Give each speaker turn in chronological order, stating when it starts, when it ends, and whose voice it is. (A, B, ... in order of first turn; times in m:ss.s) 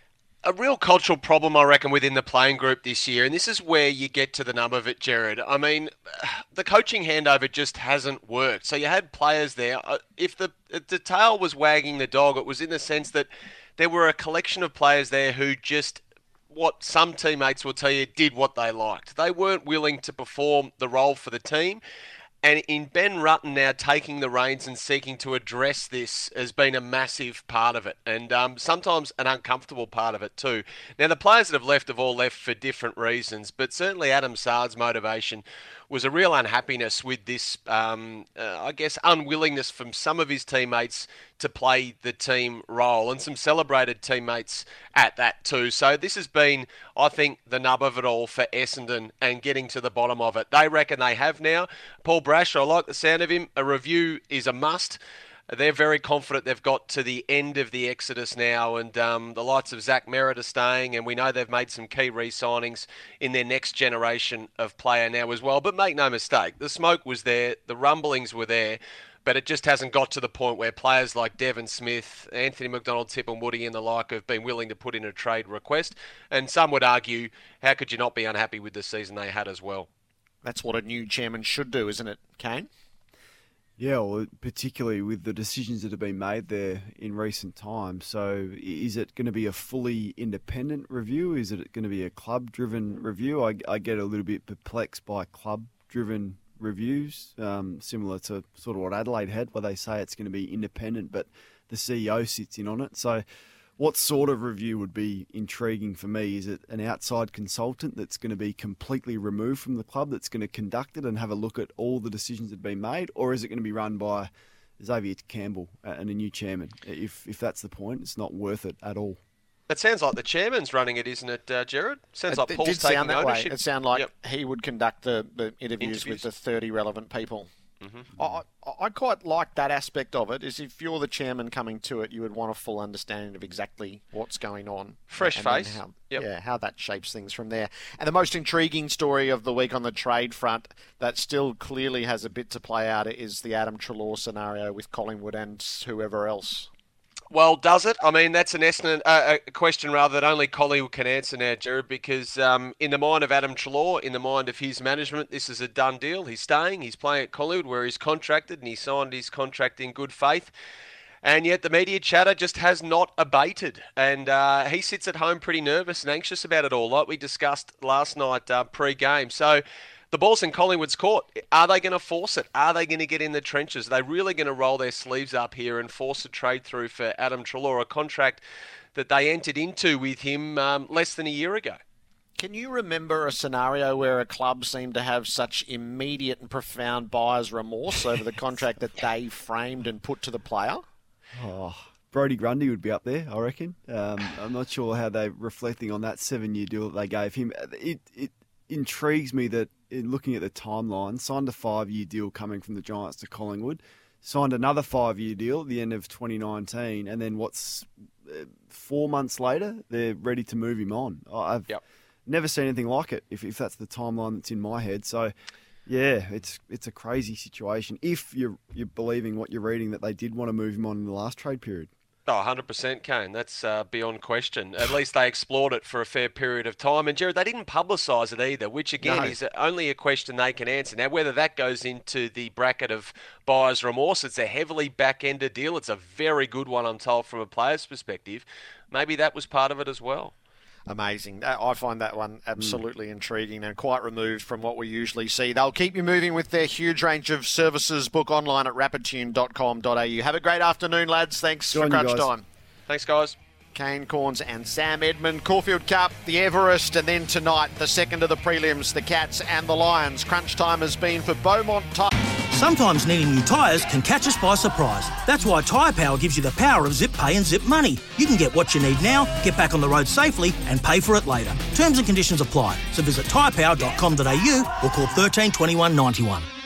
0:00.4-0:21.8 A
0:22.4-0:55.0 A
0:55.5-1:19.9 A
1:20.4-1:22.7 B
1:23.8-1:43.2 C
1:43.8-1:59.2 C
1:59.7-2:04.1 A
2:02.3-2:07.5 B
2:05.8-2:06.2 A
2:07.8-2:08.1 A
2:08.2-2:26.7 B
2:15.1-2:16.2 A
2:27.3-2:40.5 A
2:41.2-2:58.4 A
2:59.0-3:01.8 A
3:02.4-3:10.8 B
3:11.4-3:31.7 C
3:32.3-3:35.3 C
3:35.9-3:41.9 C
3:42.3-4:00.3 A
3:49.0-3:49.4 C
4:00.9-4:12.4 B
4:11.7-4:12.3 C
4:12.9-4:13.4 A
4:13.7-4:22.1 B
4:22.5-4:36.5 D